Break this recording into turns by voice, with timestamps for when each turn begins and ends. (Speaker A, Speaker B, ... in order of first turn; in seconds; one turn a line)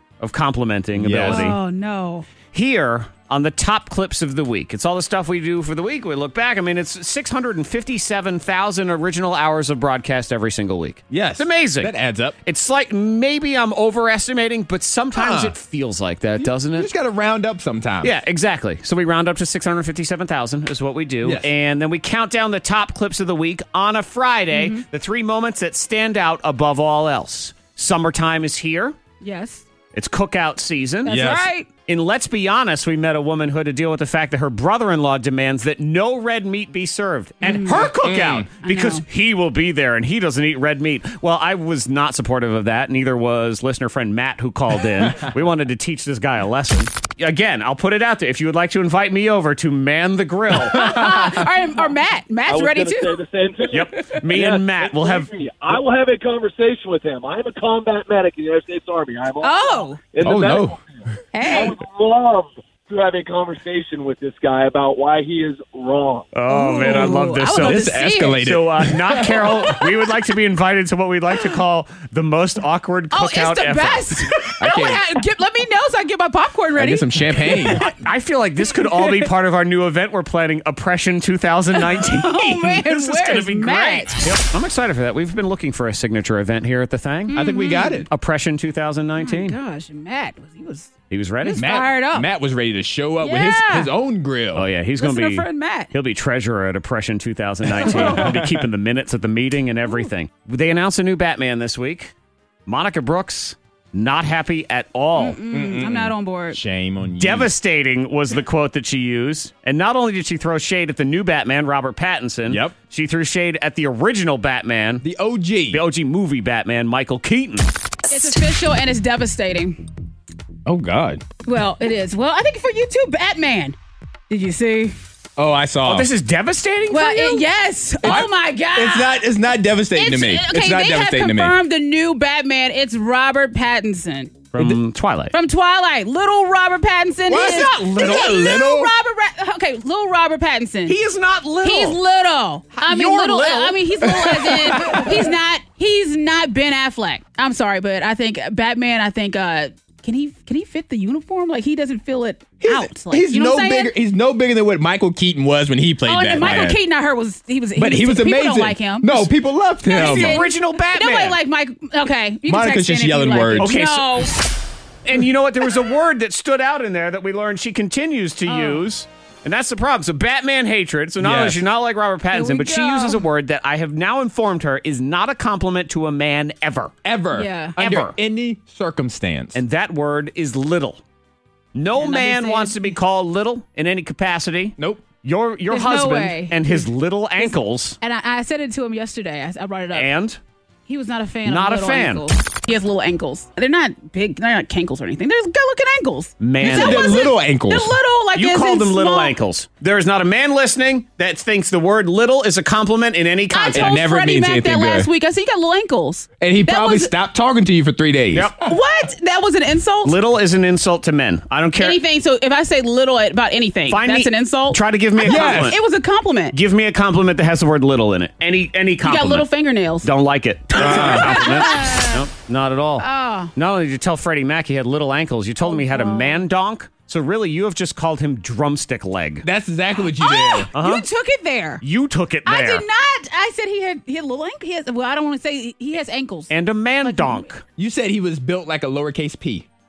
Speaker A: 0.2-1.6
Speaker B: 1.0-1.6
Speaker C: 1.2-2.3
Speaker A: 2.5-16.9
Speaker B: 11.1-12.4
Speaker B: 15.1-15.6
Speaker B: 16.4-18.1
Speaker A: 18.0-29.0
Speaker B: 21.2-21.5
Speaker C: 24.5-24.8
Speaker C: 29.2-29.7
Speaker A: 29.9-31.2
Speaker C: 31.0-31.7
Speaker B: 31.1-31.5
Speaker A: 31.9-50.9
Speaker C: 37.4-37.9
Speaker B: 38.0-38.5
Speaker C: 38.6-39.0
Speaker C: 50.7-53.2
Speaker D: 52.5-66.3
Speaker A: 53.7-55.3
Speaker C: 59.4-60.0
Speaker B: 60.2-60.8
Speaker C: 61.3-61.8
Speaker A: 66.3-74.2
Speaker C: 66.5-68.5
Speaker B: 67.6-69.8
Speaker C: 73.1-77.9
Speaker B: 74.6-75.0
Speaker B: 76.8-77.8
Speaker A: 77.8-87.4
Speaker C: 78.7-79.3
Speaker C: 81.7-84.2
Speaker C: 87.3-88.1
Speaker B: 87.3-88.1
Speaker A: 88.1-89.6
Speaker C: 89.2-92.3
Speaker A: 91.1-91.6
Speaker B: 91.6-94.7
Speaker C: 93.2-93.9
Speaker A: 94.5-102.1
Speaker C: 95.0-95.9
Speaker B: 97.7-98.6
Speaker C: 97.8-98.3
Speaker A: 102.7-105.4
Speaker C: 105.2-106.6
Speaker B: 105.5-107.5
Speaker A: 107.2-115.0
Speaker B: 112.5-112.8
Speaker B: 115.0-115.8
Speaker A: 115.7-117.7
Speaker C: 118.1-119.9
Speaker B: 120.7-121.2
Speaker C: 121.5-123.8
Speaker C: 124.3-125.0
Speaker B: 125.4-126.1
Speaker A: 125.8-127.5
Speaker C: 126.9-129.3
Speaker B: 128.0-131.6
Speaker C: 129.9-134.4
Speaker A: 134.5-135.3
Speaker C: 135.3-141.0
Speaker B: 137.3-138.9
Speaker A: 137.3-138.2
Speaker A: 140.9-142.0
Speaker C: 141.6-153.9
Speaker A: 142.8-145.0
Speaker B: 144.1-145.1
Speaker B: 152.6-156.8
Speaker C: 156.0-159.3
Speaker B: 157.8-160.4
Speaker C: 159.8-164.3
Speaker A: 159.9-161.4
Speaker B: 162.5-163.7
Speaker A: 163.6-164.3
Speaker A: 165.1-176.9
Speaker C: 168.5-168.9
Speaker B: 171.2-171.6
Speaker C: 172.3-173.3
Speaker B: 177.1-179.6
Speaker C: 177.3-177.8
Speaker A: 177.8-178.2
Speaker A: 179.5-181.0
Speaker A: 181.8-188.0
Speaker C: 182.0-183.0
Speaker B: 184.8-185.0
Speaker C: 185.7-190.1
Speaker A: 189.9-190.4
Speaker C: 190.9-199.4
Speaker A: 191.4-192.3
Speaker A: 196.4-197.2
Speaker B: 196.6-197.9
Speaker A: 198.3-204.0
Speaker C: 203.5-207.1
Speaker B: 203.7-205.1
Speaker B: 206.4-208.5
Speaker A: 208.3-208.6
Speaker C: 208.6-210.2
Speaker A: 210.0-212.0
Speaker C: 211.8-216.6
Speaker A: 213.9-215.8
Speaker B: 215.2-215.7
Speaker A: 216.5-219.5
Speaker C: 219.0-220.1
Speaker A: 220.0-229.5
Speaker C: 220.7-222.3
Speaker B: 220.8-221.4
Speaker C: 223.0-223.5
Speaker C: 225.6-226.4
Speaker B: 229.4-230.7
Speaker C: 229.9-231.8
Speaker A: 230.7-231.1
Speaker A: 231.8-232.8
Speaker C: 232.5-237.5
Speaker A: 236.5-237.6
Speaker B: 237.8-239.7